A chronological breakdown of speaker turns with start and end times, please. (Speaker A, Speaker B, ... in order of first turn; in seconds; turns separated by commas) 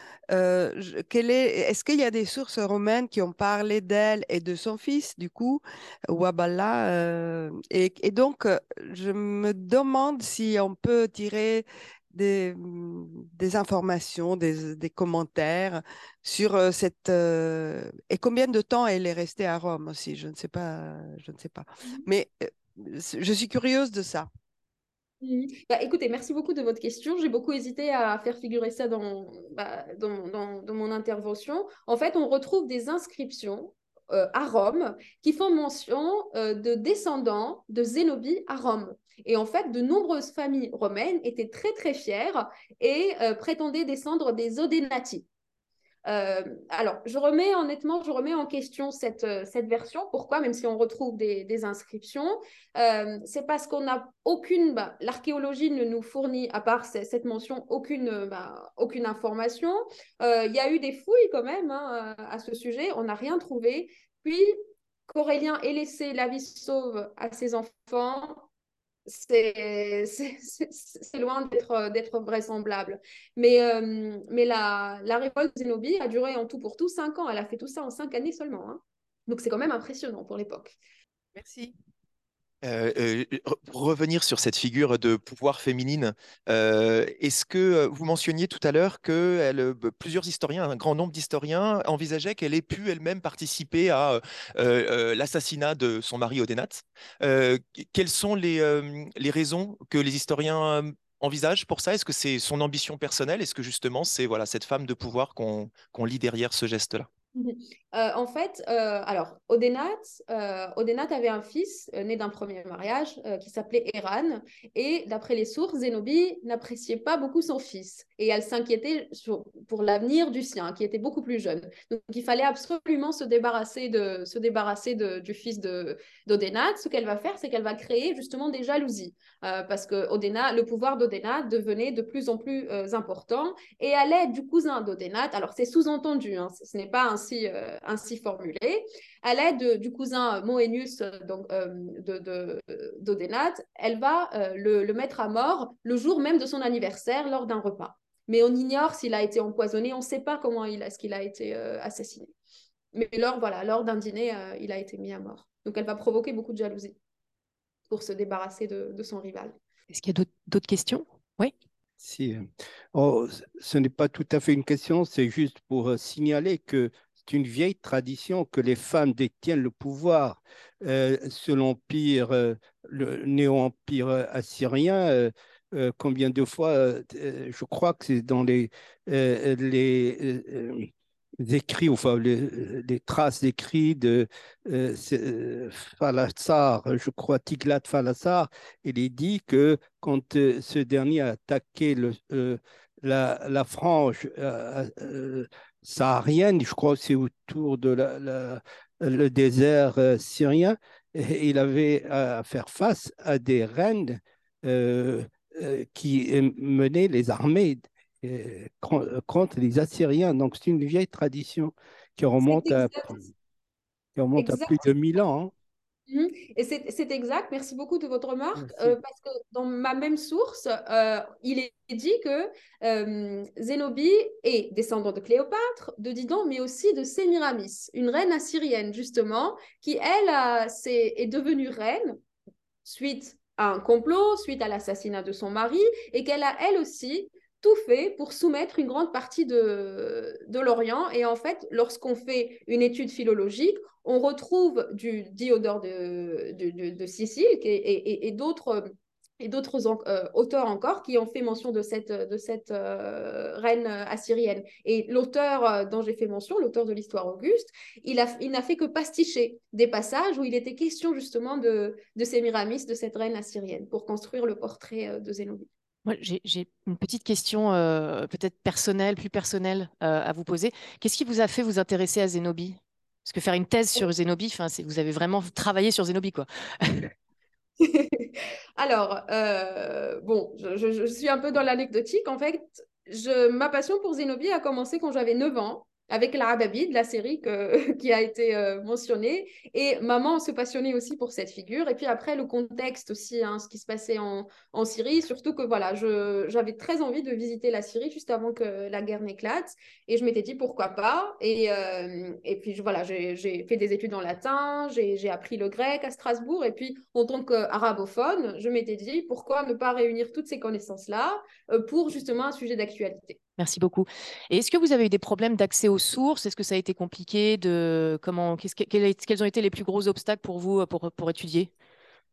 Speaker A: 0.3-24.3, Speaker B: 25.2-45.3, Speaker B: 46.1-64.6, Speaker B: 65.1-68.5, Speaker B: 69.1-80.8, Speaker C: 81.4-81.7, Speaker C: 82.6-107.1, Speaker B: 107.3-152.3, Speaker B: 152.9-157.0, Speaker B: 157.9-159.6, Speaker D: 159.9-161.5, Speaker E: 162.0-180.9, Speaker E: 181.4-213.2, Speaker B: 212.4-213.2, Speaker E: 214.2-215.5, Speaker B: 214.4-214.8, Speaker B: 216.1-232.2, Speaker E: 218.6-219.0, Speaker B: 232.8-265.7, Speaker D: 266.1-277.1, Speaker B: 277.8-313.4, Speaker D: 313.6-321.7